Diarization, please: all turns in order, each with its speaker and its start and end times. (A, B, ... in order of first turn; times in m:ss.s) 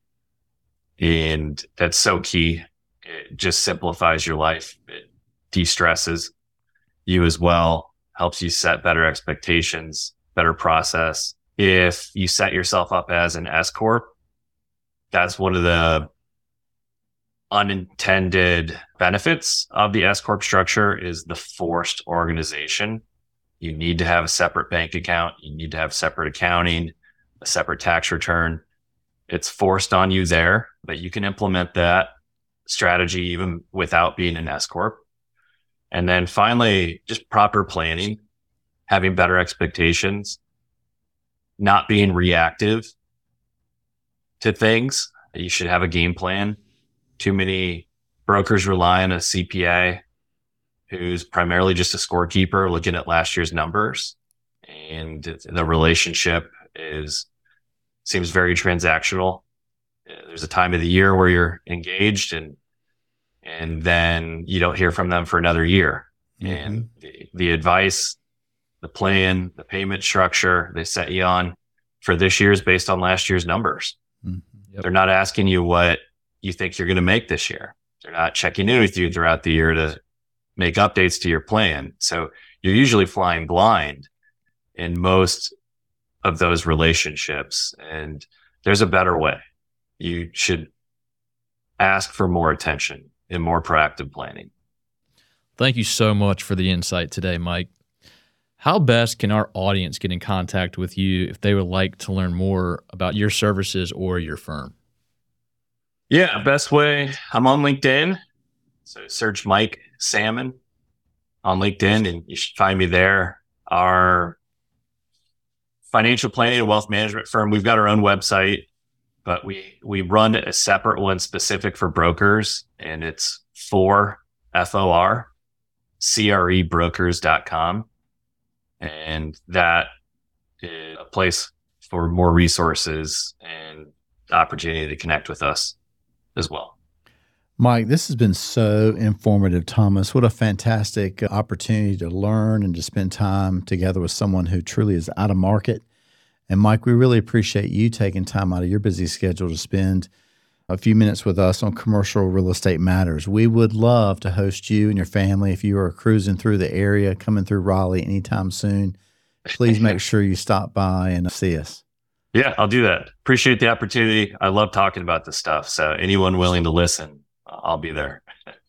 0:01.0-0:06.3 A
0:07.0-0:14.1 A
0:15.1-0:16.1 A
0:17.5-0:23.0 A
0:23.6-0:28.6 A
0:29.3-0:32.1 A
0:32.7-0:35.0 A
0:35.9-0:38.2 A
0:38.9-0:40.4 A
0:41.6-0:42.9 A
0:44.4-0:46.6 A
0:47.2-0:50.0 A
0:50.9-0:57.2 A
0:58.0-0:59.4 A
1:00.1-1:02.6 A
1:03.4-1:08.2 A
1:06.4-1:06.8 B
1:08.8-1:14.0 A
1:14.8-1:20.0 A
1:20.6-1:24.1 A
1:24.8-1:25.5 A
1:26.2-1:29.4 A
1:30.0-1:30.7 A
1:31.8-1:34.5 A
1:35.6-1:37.7 C
1:38.6-1:44.7 C
1:46.1-1:48.2 A
1:48.8-1:50.6 A
1:51.4-1:54.4 A
1:55.9-1:58.6 A
1:59.2-2:05.3 A
2:06.0-2:07.9 A
2:08.8-2:09.9 A
2:10.6-2:15.7 A
2:16.4-2:16.7 A
2:17.6-2:25.8 B
2:26.5-2:30.1 B
2:30.7-2:39.0 B
2:39.5-2:41.8 B
2:42.3-2:48.2 A